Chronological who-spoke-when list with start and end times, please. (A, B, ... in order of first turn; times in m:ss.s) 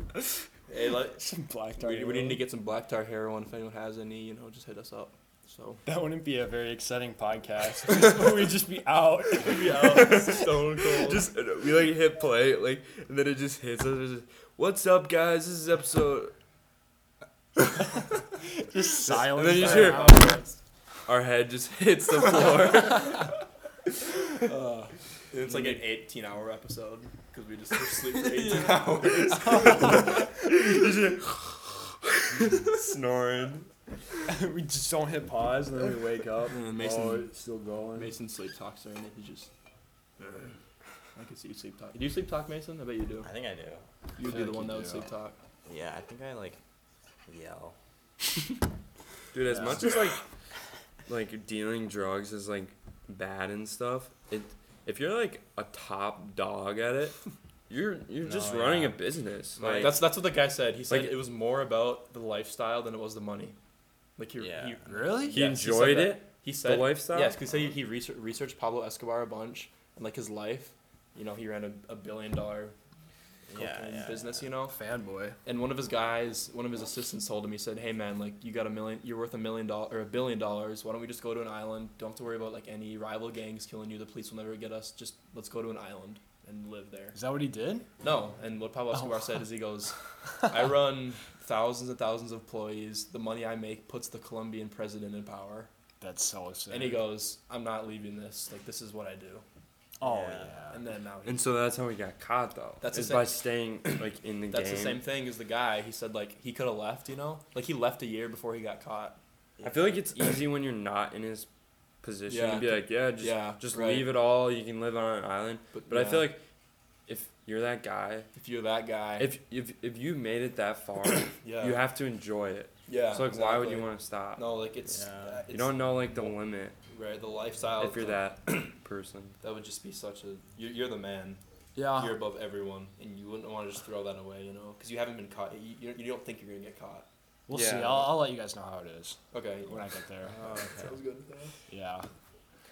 0:00.7-0:01.2 A
0:01.2-0:02.4 B
0:01.8-0:05.8 A
0:05.9-0:10.5 B
0:09.4-0:11.3 A
0:09.8-0:16.3 C
0:18.5-0:20.3 B
0:19.1-0:20.4 C
0:19.1-0:20.6 A
0:21.1-0:23.4 C
0:24.5-0:24.9 B
0:25.3-0:30.3 A
0:28.2-0:33.7 C
0:29.6-0:29.9 B
0:34.3-0:38.1 B
0:36.4-0:37.3 A
0:38.0-0:39.5 A
0:40.2-0:40.5 A
0:41.2-0:43.3 A
0:43.2-0:43.8 D
0:44.2-0:45.4 A
0:44.2-0:45.1 B
0:45.7-0:46.6 D
0:47.3-0:47.8 D
0:49.3-0:50.2 C
0:49.5-0:49.8 B
0:51.1-1:00.0 C
0:58.2-0:59.0 D
0:59.6-1:00.0 D
0:59.8-1:03.6 A
1:00.9-1:01.2 C
1:04.2-1:12.8 A
1:04.4-1:04.9 D
1:04.9-1:05.4 B
1:05.3-1:07.4 C
1:13.5-1:14.5 D
1:13.5-1:14.8 A
1:14.7-1:15.4 B
1:15.4-1:27.2 A
1:27.1-1:27.9 B
1:28.0-1:35.7 A
1:28.9-1:29.4 B
1:36.0-1:37.0 B
1:36.7-1:39.4 A
1:40.0-1:40.8 B
1:40.0-1:40.6 D
1:40.7-1:41.4 A
1:41.2-1:45.0 C
1:42.8-1:49.2 A
1:49.6-1:49.9 D
1:49.6-1:51.5 C
1:52.0-1:56.4 C
1:52.3-1:54.1 A
1:55.7-1:56.3 A
1:57.1-1:58.3 C
1:58.4-1:59.3 A
1:59.2-2:04.5 C
2:01.2-2:01.8 A
2:02.9-2:06.4 A
2:04.9-2:05.4 D
2:05.5-2:06.8 C
2:06.9-2:08.8 A
2:07.8-2:09.4 C
2:09.4-2:11.4 A
2:11.8-2:12.2 B
2:11.9-2:17.1 A
2:17.5-2:20.4 B
2:17.5-2:18.2 C
2:19.3-2:19.8 A
2:20.3-2:21.0 D
2:20.4-2:21.5 A
2:21.7-2:22.1 B